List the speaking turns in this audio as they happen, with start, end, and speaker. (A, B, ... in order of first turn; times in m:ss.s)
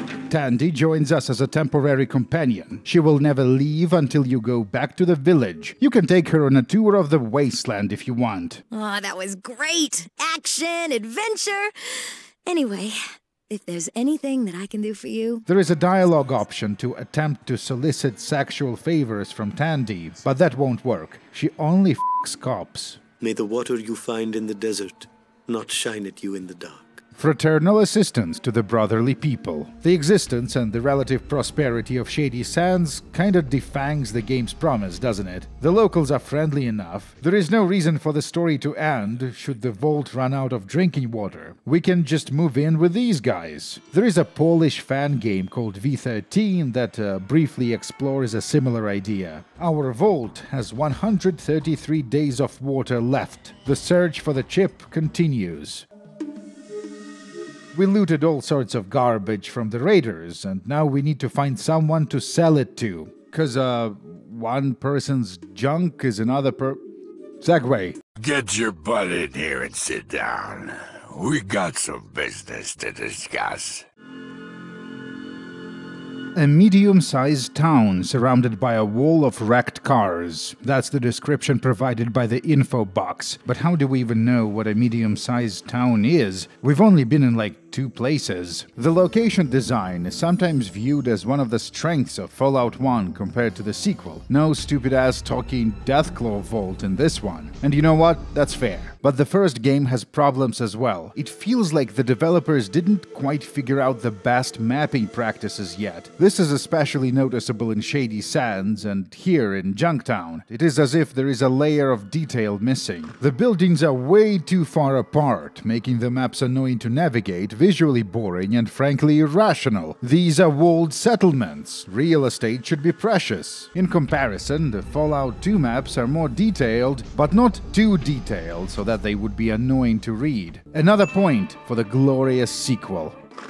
0:00.3-0:08.6 A
0:08.7-0:15.4 B
0:15.5-0:23.0 A
0:23.2-0:27.0 C
0:27.2-0:55.9 A
0:57.7-1:06.8 A
1:07.4-1:08.0 A
1:08.2-1:13.8 D
1:16.3-2:13.2 A